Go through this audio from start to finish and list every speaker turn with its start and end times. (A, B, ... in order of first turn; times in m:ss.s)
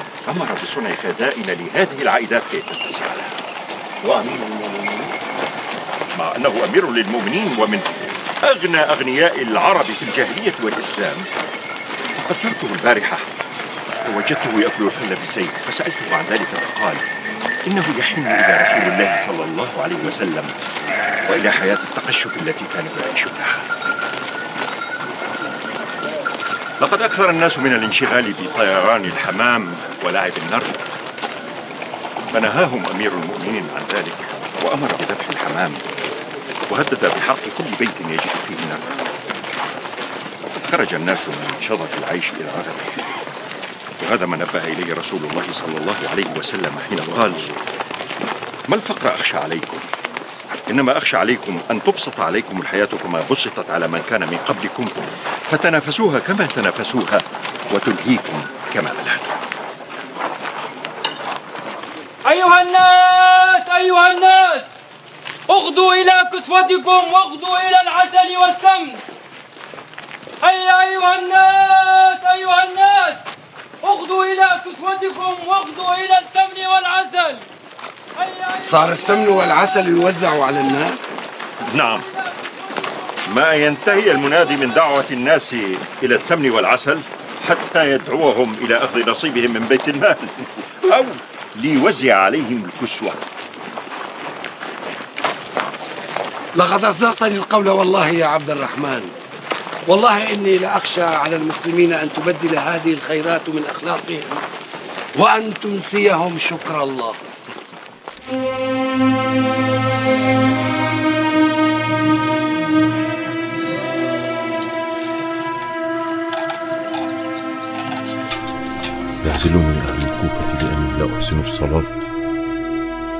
0:00.2-0:03.3 A
0:04.0-0:05.1 B
0:06.1-0:07.9 A
0:08.4-0:11.3 A
0:12.2-0:13.3 A
0:14.0-0:17.0 A
0:17.6-0:20.5 A
0:21.2-0:23.6 A
0:26.8-0:30.8 A
0:32.3-0:35.8 A
0:36.7-0:38.8 A
0:40.5-0:43.0 A
0:44.0-0:47.5 A
0:48.7-0:49.8 A
0:50.7-0:59.3 A
1:02.2-1:04.7 C
1:05.5-1:09.0 C
1:10.4-1:13.2 C
1:13.8-1:17.4 C
1:18.2-1:19.0 C
1:18.6-1:21.1 B
1:21.7-1:22.1 A
1:23.3-1:33.2 A
1:36.5-1:39.1 B
1:39.9-1:44.4 B
1:45.2-1:47.2 B
1:59.2-2:01.9 D